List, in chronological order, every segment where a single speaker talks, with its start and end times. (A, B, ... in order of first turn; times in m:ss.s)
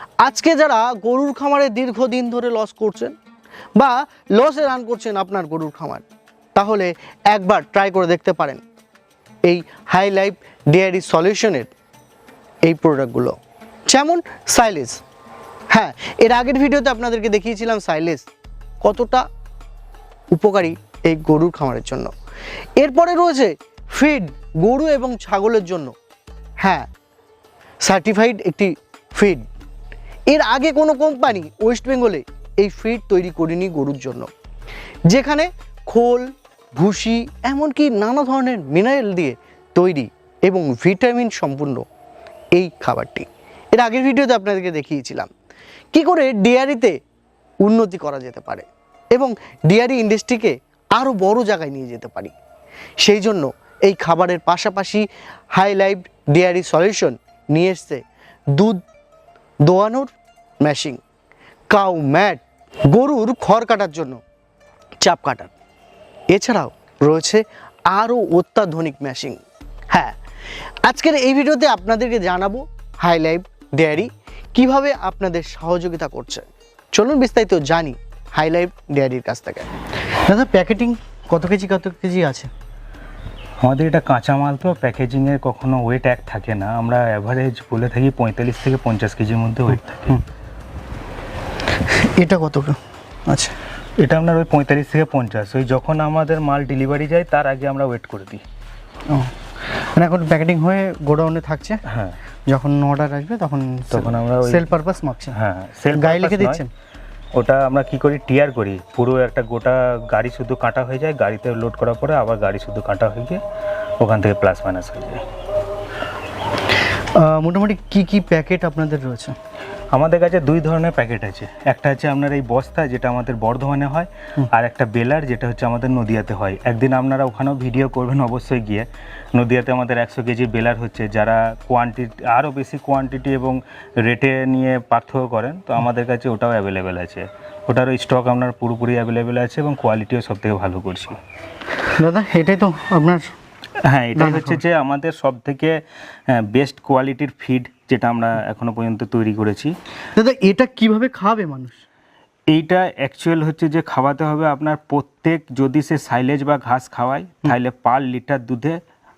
0:00.2-0:03.1 A
0:03.8-0:06.0 A
0:06.6-0:08.6 A
0:09.5-0:11.7 A
0:12.7-0:13.4 A
0:13.9-0:15.0 A
0:15.7-0:18.3 A
0:18.8-0:19.2 A
0:20.3-0:22.1 A
0:22.8-0:25.9 A
0:26.6-0:26.9 A
0:27.8-0:29.4 A
0:30.3-0:34.3 A
0:35.1-0:41.8 A
0:42.6-0:45.3 A
0:45.9-0:47.0 A
0:47.6-0:52.3 A
0:53.0-0:58.8 A
0:59.6-1:00.1 A
1:00.6-1:01.0 A
1:01.7-1:04.2 A
1:05.0-1:05.5 A
1:06.3-1:10.2 A
1:10.8-1:22.5 A
1:23.6-1:30.2 B
1:31.9-1:33.6 A
1:34.0-1:38.4 B
1:39.1-1:41.8 A
1:41.9-1:42.2 B
1:42.5-1:45.4 A
1:43.9-1:44.7 B
1:45.3-1:46.6 B
1:45.9-1:46.7 A
1:47.4-1:53.4 B
1:54.0-1:55.2 B
1:57.2-1:59.4 A
1:59.9-2:21.2 B
2:21.9-2:23.3 A
2:23.8-2:29.8 B
2:24.2-2:24.6 A
2:30.2-2:31.8 A
2:32.5-2:38.8 B